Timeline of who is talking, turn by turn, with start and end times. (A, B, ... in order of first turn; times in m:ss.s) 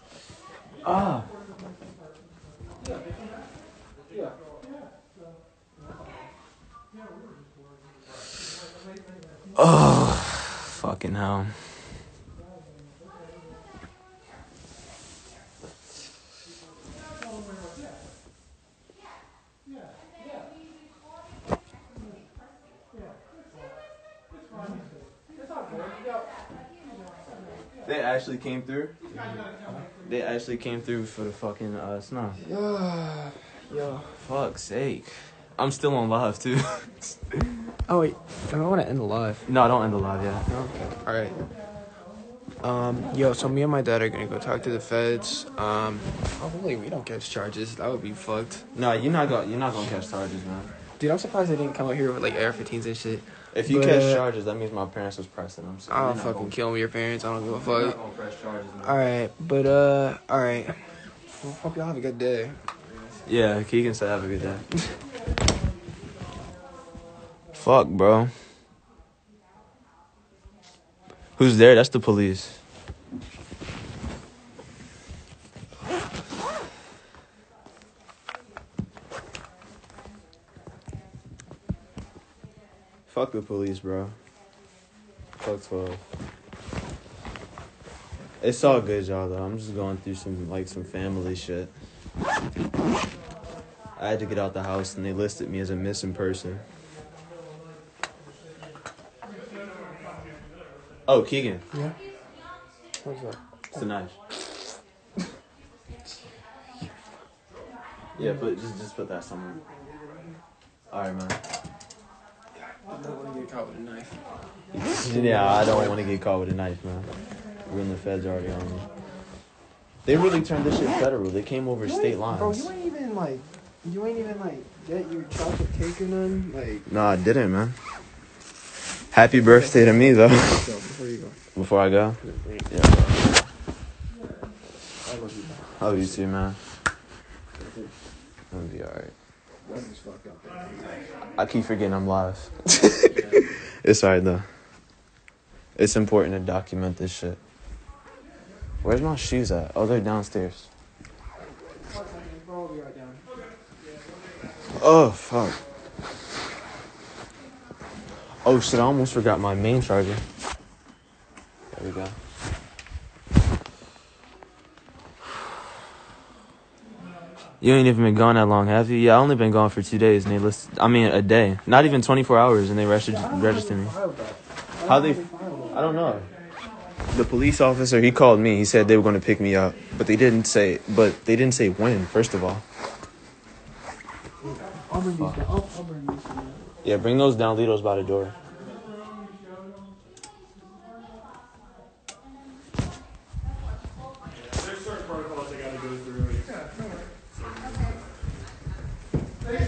0:00.8-0:01.3 A
0:09.6-0:11.8 A
0:27.8-0:29.4 A
0:30.0-0:32.4 A
0:32.4-0:34.2 B
0:34.2-0:37.4 A
0:37.9-0:39.4 B
0:39.5-0:40.5 A
0:40.5-0:41.4 B
0:42.6-0:48.7 B
0:48.7-0:50.7 A
0:51.0-0:54.2 B
0:53.5-0:56.6 A
0:55.9-0:58.0 B
0:57.5-0:59.0 A
0:58.8-1:03.2 B
1:03.2-1:04.7 A
1:07.5-1:08.4 A
1:11.4-1:12.6 A
1:23.1-1:24.1 A
1:25.4-1:26.0 A
1:28.4-1:31.7 A
1:34.0-1:36.6 A
1:41.1-1:41.6 A
1:43.0-1:43.8 B
1:43.7-1:44.2 A
1:48.2-1:49.6 A
1:49.6-1:50.4 B
1:50.9-1:51.4 A
1:52.8-1:54.2 B
1:54.7-1:57.1 A
1:55.0-1:56.0 B
1:57.7-1:58.9 A
2:00.0-2:02.7 A
2:01.8-2:06.9 B
2:06.9-2:07.8 A
2:09.1-2:10.7 A
2:09.3-2:11.4 B
2:11.6-2:13.3 A
2:12.2-2:12.6 B
2:15.0-2:16.2 B
2:15.8-2:16.6 A
2:17.6-2:17.9 B
2:18.5-2:19.1 A
2:19.6-2:20.8 B
2:21.4-2:24.5 A
2:25.8-2:27.4 A
2:28.8-2:30.7 A
2:31.9-2:33.2 B
2:33.3-2:34.7 C
2:34.7-2:35.6 A
2:38.4-2:40.2 A
2:41.7-2:42.2 A
2:47.6-2:53.9 A
2:53.1-2:55.8 B
2:54.8-2:56.3 A
2:57.1-3:02.6 A
3:04.4-3:06.7 B
3:06.8-3:08.4 A
3:14.4-3:16.6 C
3:17.4-3:17.7 C